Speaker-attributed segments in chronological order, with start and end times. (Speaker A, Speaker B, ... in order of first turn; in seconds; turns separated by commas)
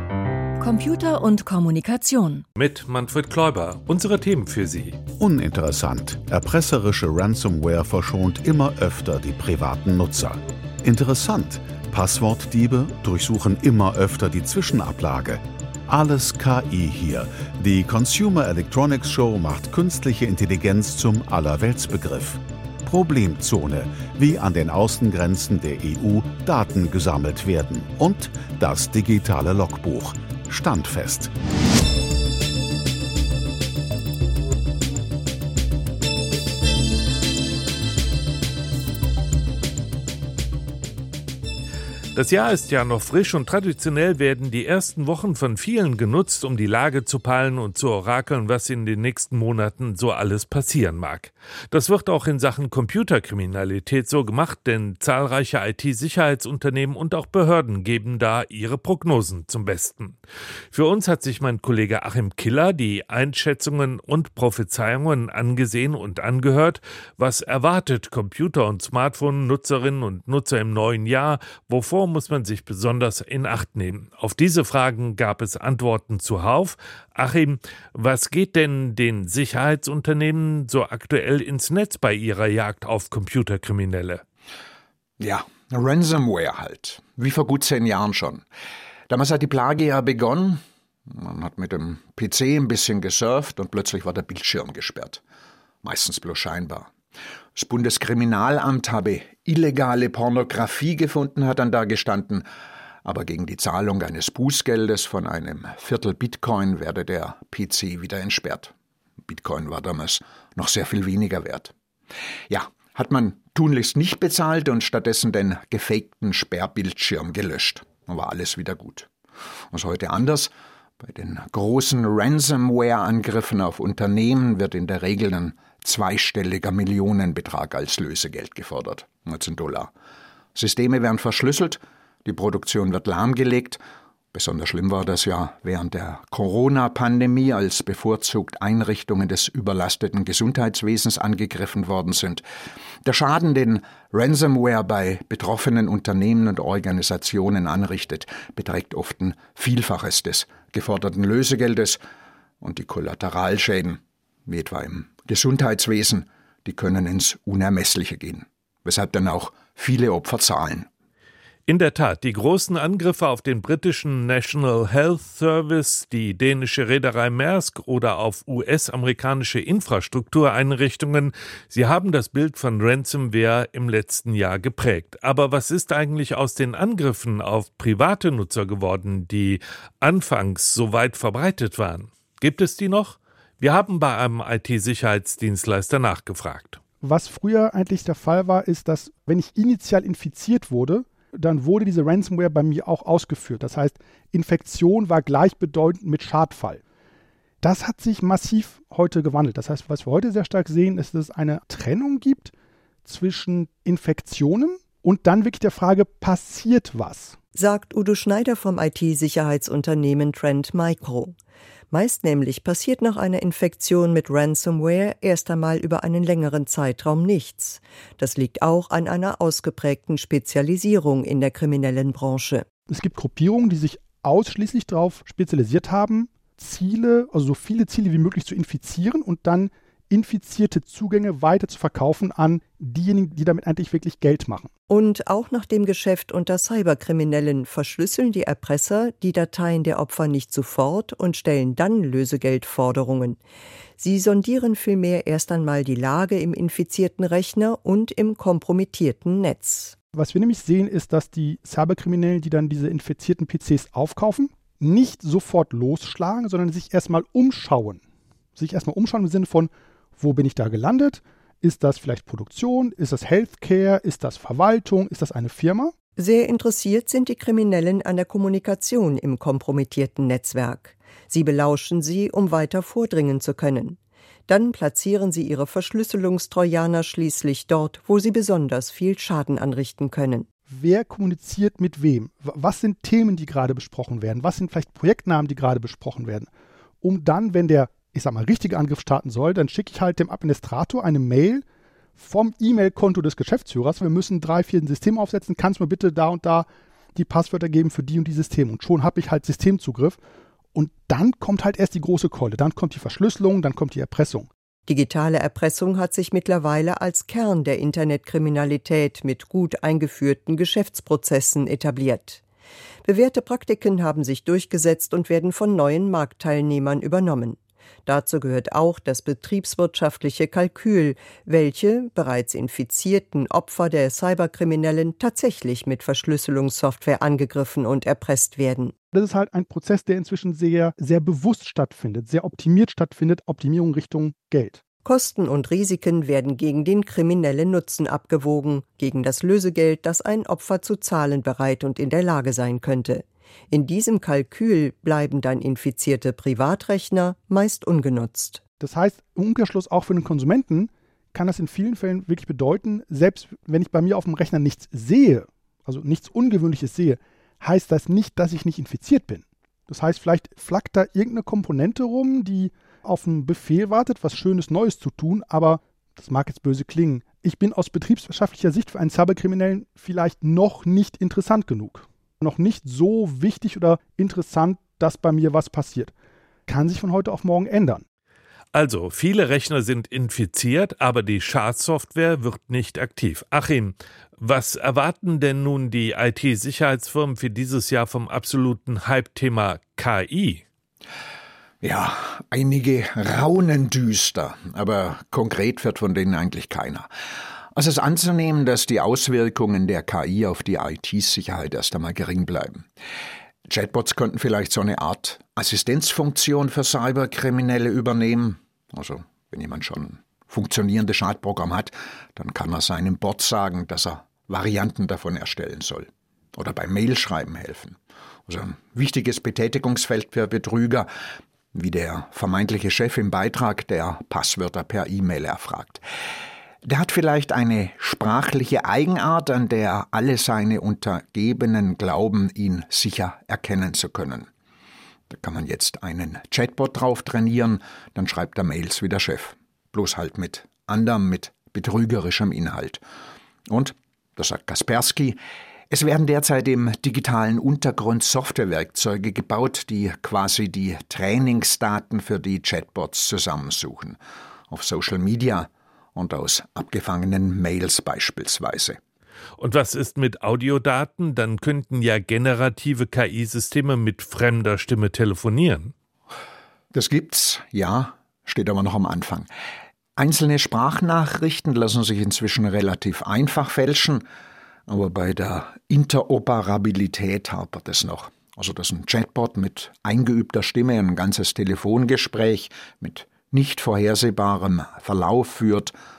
Speaker A: 2.6-5.0, Speaker B: 5.2-31.3, Speaker A: 42.1-60.2, Speaker A: 60.7-84.2, Speaker C: 85.2-88.4, Speaker C: 89.1-95.2, Speaker C: 95.8-96.9, Speaker C: 97.5-102.4, Speaker C: 103.0-108.7, Speaker C: 109.2-111.7, Speaker C: 112.5-119.1, Speaker C: 119.7-129.9, Speaker C: 130.5-133.8, Speaker C: 134.3-142.4, Speaker C: 143.0-152.0, Speaker C: 152.6-160.9, Speaker A: 161.7-186.8, Speaker D: 187.0-196.8, Speaker D: 197.6-202.5, Speaker D: 203.0-207.3, Speaker E: 207.5-211.3, Speaker E: 211.9-222.7, Speaker D: 222.9-234.7, Speaker E: 234.9-243.4, Speaker E: 244.0-249.9, Speaker D: 250.1-258.0, Speaker D: 258.6-265.9, Speaker E: 266.2-280.5, Speaker D: 280.7-286.5, Speaker D: 287.0-291.6, Speaker D: 292.2-300.2, Speaker D: 300.7-304.5, Speaker E: 304.9-312.4, Speaker E: 313.0-329.0, Speaker D: 329.1-334.8, Speaker E: 335.0-348.6, Speaker D: 348.8-376.1, Speaker D: 376.7-378.0, Speaker A: 378.7-390.6, Speaker C: 391.8-397.1, Speaker C: 397.7-402.9, Speaker C: 403.7-417.9, Speaker C: 418.5-421.1, Speaker C: 421.7-426.0, Speaker C: 426.8-434.5, Speaker C: 435.3-443.0, Speaker C: 443.7-445.4, Speaker C: 445.9-454.2, Speaker C: 454.7-459.0, Speaker A: 459.6-465.9, Speaker C: 466.9-469.5, Speaker C: 470.2-474.2, Speaker C: 474.9-485.9